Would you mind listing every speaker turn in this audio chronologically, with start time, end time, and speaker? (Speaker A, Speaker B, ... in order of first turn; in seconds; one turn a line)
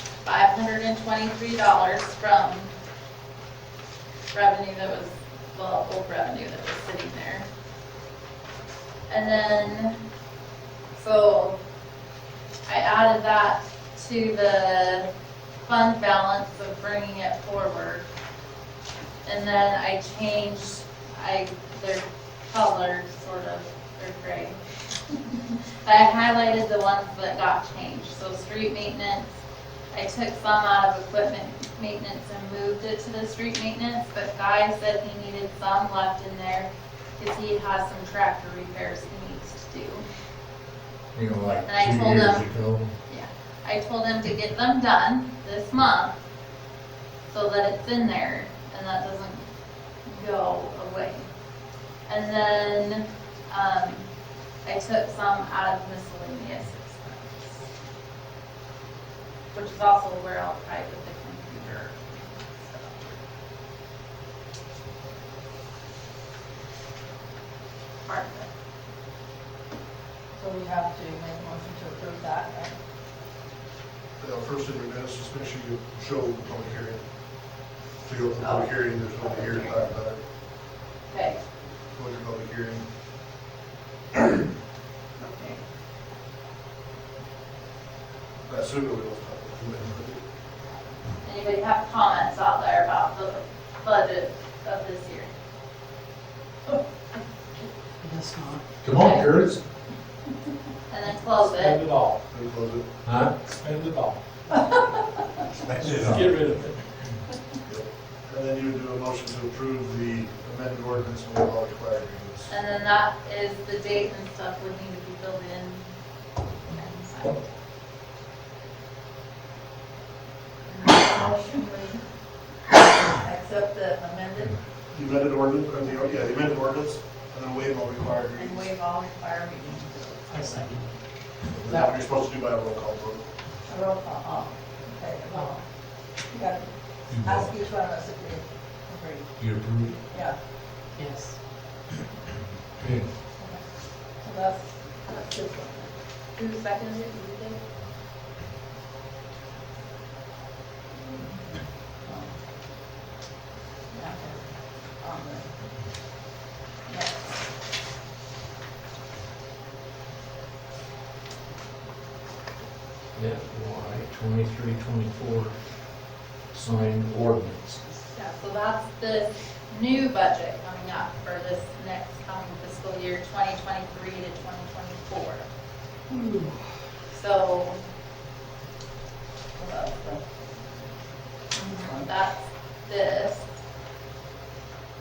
Speaker A: 0.2-2.7
Speaker A: 4.3-7.5
Speaker A: 9.1-10.0
Speaker A: 10.9-11.6
Speaker A: 12.7-15.1
Speaker A: 15.6-18.0
Speaker A: 19.2-24.6
Speaker A: 25.1-29.4
Speaker A: 29.9-40.0
Speaker B: 41.1-42.9
Speaker A: 41.6-42.5
Speaker A: 43.1-46.1
Speaker A: 47.3-49.4
Speaker A: 50.1-51.3
Speaker A: 52.1-54.1
Speaker A: 54.6-57.6
Speaker A: 59.5-63.2
Speaker A: 68.0-68.5
Speaker C: 70.3-72.8
Speaker D: 74.2-77.0
Speaker D: 78.0-80.2
Speaker A: 78.4-79.9
Speaker A: 81.1-81.4
Speaker D: 81.9-82.8
Speaker A: 85.2-85.6
Speaker D: 88.5-90.2
Speaker A: 91.2-95.3
Speaker E: 98.0-98.6
Speaker B: 98.8-99.6
Speaker A: 99.0-99.3
Speaker A: 100.9-101.8
Speaker F: 101.5-102.2
Speaker D: 102.3-102.9
Speaker B: 103.0-103.4
Speaker F: 103.5-104.2
Speaker B: 105.8-106.4
Speaker F: 105.9-106.7
Speaker D: 107.7-112.5
Speaker A: 112.5-115.9
Speaker A: 116.6-117.5
Speaker C: 120.7-122.0
Speaker C: 122.7-124.5
Speaker D: 124.9-128.6
Speaker C: 128.4-130.2
Speaker E: 130.3-130.9
Speaker D: 131.5-133.2
Speaker E: 131.6-131.9
Speaker C: 133.7-135.6
Speaker C: 136.3-136.7
Speaker B: 137.1-137.5
Speaker C: 137.2-139.3
Speaker B: 139.4-140.0
Speaker C: 140.1-140.4
Speaker E: 141.0-141.4
Speaker B: 142.8-143.1
Speaker C: 144.2-145.9
Speaker A: 146.4-147.6
Speaker C: 152.0-152.3
Speaker C: 153.9-154.4
Speaker C: 155.0-155.5
Speaker C: 156.9-157.3
Speaker B: 163.1-165.5
Speaker B: 166.5-167.8
Speaker A: 168.2-175.5
Speaker A: 177.1-177.8
Speaker C: 179.6-180.2
Speaker A: 181.5-183.4